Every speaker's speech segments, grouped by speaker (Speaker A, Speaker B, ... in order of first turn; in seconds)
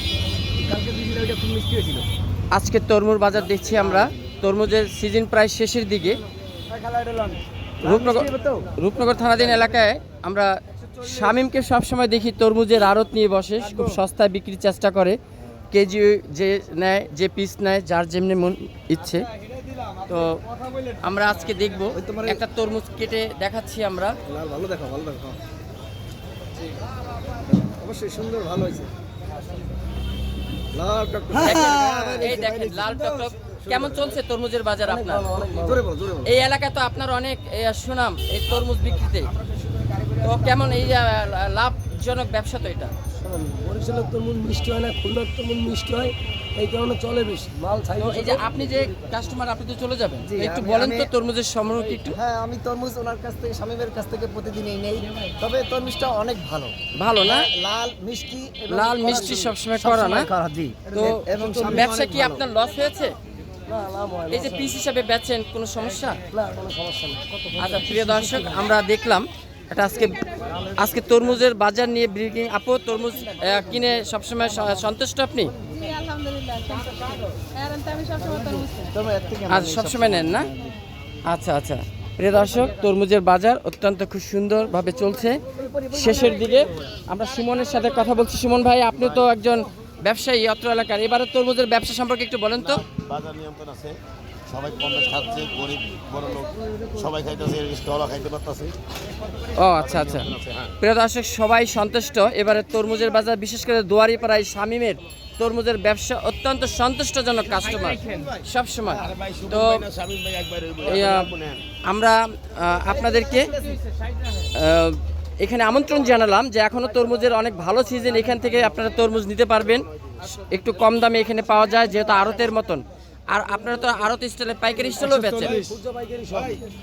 Speaker A: 0.6-2.0, 3.5-4.2, 6.7-8.7, 21.9-22.4, 24.3-25.4, 27.6-28.9, 30.7-32.9, 33.7-34.0, 35.5-36.3, 39.7-40.2, 50.2-51.1, 52.1-62.4, 78.2-80.7, 85.5-86.7, 125.2-126.6
Speaker B: 2.5-6.2, 7.8-15.2, 15.7-19.2, 20.1-20.4, 21.0-24.1, 31.4-35.3, 36.2-39.3, 40.2-42.9, 48.0-52.1, 57.0-57.5, 58.7-60.3, 60.9-63.1, 64.3-66.2, 67.6-70.2, 70.7-75.5, 79.5-80.5, 81.3-92.8, 99.5-109.8, 110.8-111.3, 111.8-113.6, 114.5-125.6
Speaker C: 34.8-35.8, 43.2-48.6, 63.7-64.7, 66.3-68.6
Speaker D: 75.9-78.8
Speaker E: 92.6-98.8, 99.8-100.8, 109.1-111.7